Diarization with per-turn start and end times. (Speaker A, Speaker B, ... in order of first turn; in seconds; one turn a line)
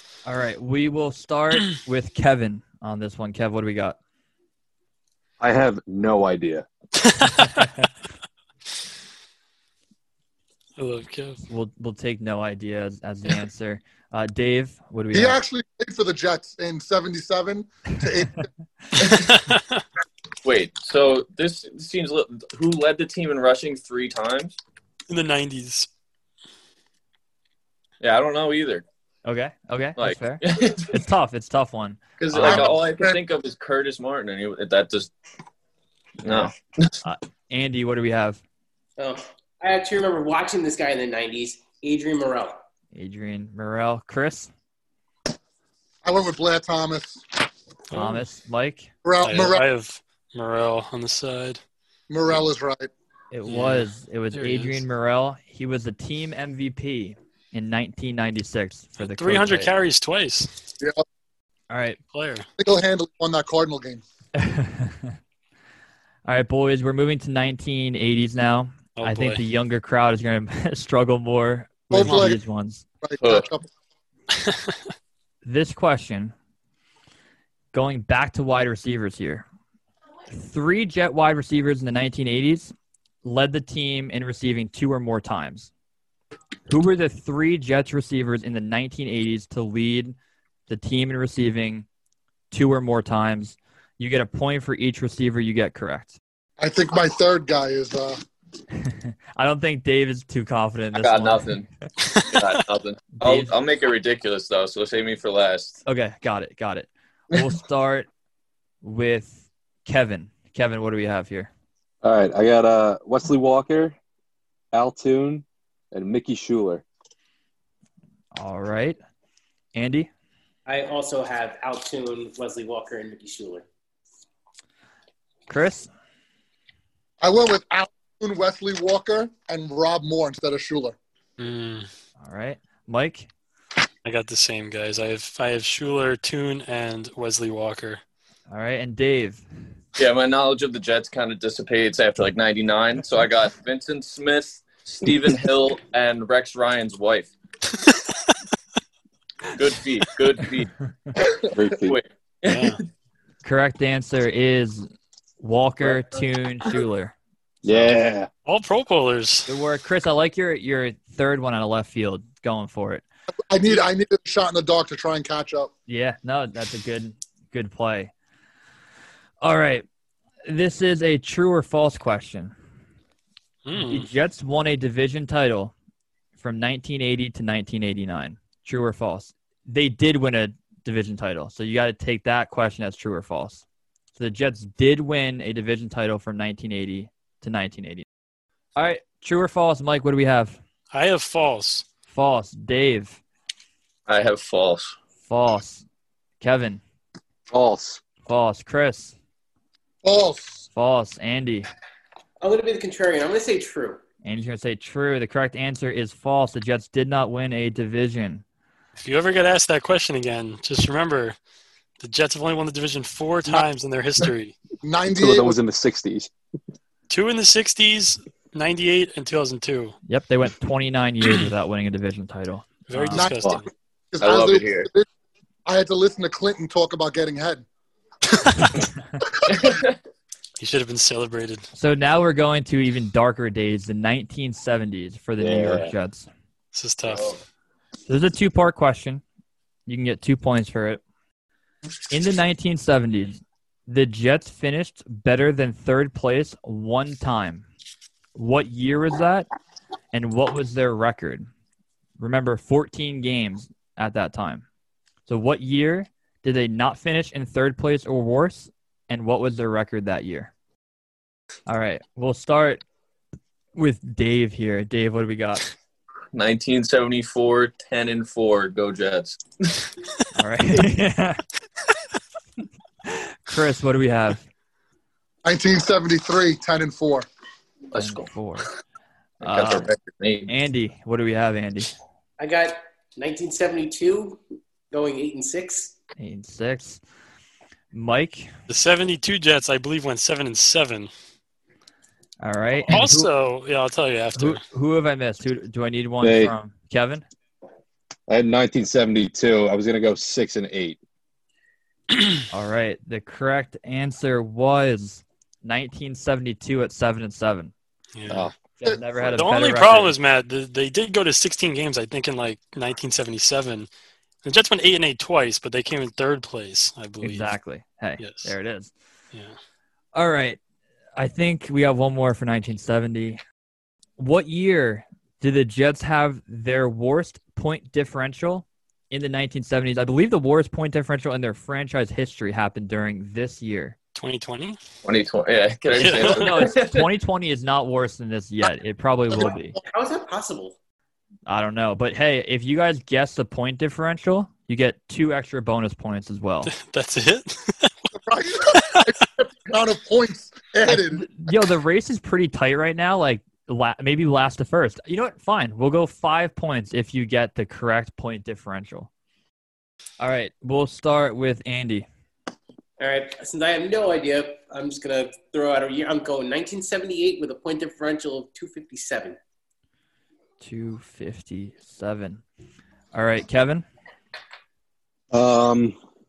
Speaker A: 0.2-4.0
Speaker B: 5.4-6.7
Speaker C: 7.1-7.6
Speaker C: 10.8-11.4
Speaker A: 11.5-15.4
Speaker D: 15.1-18.5
Speaker E: 19.0-19.3
Speaker C: 19.1-19.8
Speaker E: 20.4-24.6
Speaker C: 25.1-25.9
Speaker E: 28.0-28.8
Speaker A: 29.2-32.8
Speaker E: 30.0-31.0
Speaker E: 32.2-35.1
Speaker D: 32.4-33.2
Speaker E: 36.2-36.9
Speaker A: 37.0-38.4
Speaker F: 39.0-42.6
Speaker A: 42.9-44.5
Speaker D: 46.0-47.2
Speaker C: 47.9-48.3
Speaker A: 47.9-48.9
Speaker D: 49.0-49.6
Speaker C: 49.2-51.6
Speaker D: 52.1-52.9
Speaker A: 53.3-59.7
Speaker C: 53.5-54.8
Speaker C: 59.0-60.5
Speaker A: 61.7-62.0
Speaker C: 62.1-62.5
Speaker D: 62.6-64.0
Speaker A: 64.4-65.2
Speaker A: 66.3-72.8
Speaker C: 69.0-69.4
Speaker D: 71.9-72.4
Speaker C: 72.0-72.3
Speaker D: 73.0-73.7
Speaker E: 73.2-73.5
Speaker C: 74.5-74.7
Speaker A: 75.5-76.3
Speaker A: 77.7-79.5
Speaker A: 80.3-85.7
Speaker A: 86.7-90.2
Speaker A: 90.7-91.9
Speaker A: 92.5-96.2
Speaker D: 96.6-98.2
Speaker A: 98.8-101.5
Speaker E: 100.9-101.7
Speaker C: 102.0-102.6
Speaker E: 102.3-105.8
Speaker A: 103.2-103.5
Speaker A: 105.9-108.1
Speaker A: 108.8-111.5
Speaker B: 112.0-114.0
Speaker B: 114.7-116.8
Speaker A: 118.4-119.0
Speaker A: 119.8-120.1
Speaker F: 120.7-123.6
Speaker A: 125.5-125.9
Speaker D: 127.2-131.0
Speaker C: 131.4-131.9
Speaker A: 132.2-133.3
Speaker C: 134.1-138.0
Speaker A: 138.5-139.4
Speaker E: 140.0-147.3
Speaker E: 149.6-150.7
Speaker B: 151.5-152.0
Speaker E: 151.8-152.8
Speaker C: 152.5-152.8
Speaker A: 153.4-154.9
Speaker A: 155.4-157.2
Speaker B: 157.6-158.3
Speaker A: 157.7-157.9
Speaker C: 158.5-159.5
Speaker A: 159.5-163.0
Speaker D: 163.5-165.7
Speaker A: 165.9-168.1
Speaker A: 169.4-169.9
Speaker A: 170.4-172.5
Speaker C: 173.7-174.1
Speaker A: 173.7-175.7
Speaker A: 176.4-183.6
Speaker A: 184.2-188.1
Speaker A: 188.8-190.6
Speaker C: 190.9-191.9
Speaker A: 192.1-193.2
Speaker E: 194.1-195.0
Speaker A: 195.2-195.8
Speaker A: 196.4-196.8
Speaker B: 197.5-198.0
Speaker A: 198.2-199.2
Speaker D: 200.0-200.7
Speaker A: 200.7-201.7
Speaker F: 202.4-204.0
Speaker A: 204.2-208.4
Speaker C: 209.0-211.4
Speaker C: 212.0-214.6
Speaker D: 214.8-215.6
Speaker B: 215.1-216.3
Speaker C: 217.1-220.0
Speaker A: 220.1-223.3
Speaker C: 222.9-223.7
Speaker D: 223.2-223.5
Speaker D: 224.1-225.1
Speaker E: 224.2-224.9
Speaker D: 225.7-227.7
Speaker E: 229.5-230.0
Speaker C: 230.6-231.7
Speaker A: 231.8-236.3
Speaker B: 235.4-235.9
Speaker C: 236.7-237.3
Speaker E: 237.1-237.4
Speaker A: 238.1-239.2
Speaker A: 239.9-241.0
Speaker A: 242.1-247.7
Speaker A: 248.3-249.5
Speaker A: 250.1-251.5
Speaker A: 252.2-254.7
Speaker A: 255.3-260.5
Speaker A: 261.7-262.8
Speaker A: 263.8-265.7
Speaker E: 266.3-269.4
Speaker A: 270.4-271.4
Speaker A: 273.1-274.4
Speaker D: 275.4-277.3
Speaker E: 277.9-278.3
Speaker A: 278.0-278.7
Speaker A: 279.4-279.9
Speaker E: 279.4-280.5
Speaker A: 280.5-281.9
Speaker F: 282.4-285.9
Speaker A: 286.2-287.0
Speaker A: 287.9-288.5
Speaker C: 288.7-291.1
Speaker A: 292.4-293.3
Speaker C: 292.9-294.6
Speaker A: 294.4-297.2
Speaker B: 296.2-296.5
Speaker B: 298.3-301.0
Speaker A: 302.5-307.7
Speaker C: 308.2-308.5
Speaker A: 308.8-310.1
Speaker C: 309.3-313.9
Speaker C: 314.4-317.5
Speaker A: 317.2-318.9
Speaker C: 318.2-318.5
Speaker A: 320.1-320.6
Speaker A: 321.2-323.4
Speaker A: 324.2-334.0
Speaker C: 334.1-334.8
Speaker E: 335.1-337.1
Speaker C: 336.0-336.4
Speaker A: 336.0-339.8
Speaker F: 339.9-340.8
Speaker A: 341.5-346.7
Speaker C: 346.7-348.1
Speaker D: 348.2-351.3
Speaker C: 348.7-349.1
Speaker A: 350.9-359.1
Speaker A: 360.2-362.1
Speaker F: 363.0-369.4
Speaker A: 370.6-372.4
Speaker A: 373.1-373.9
Speaker B: 375.3-375.9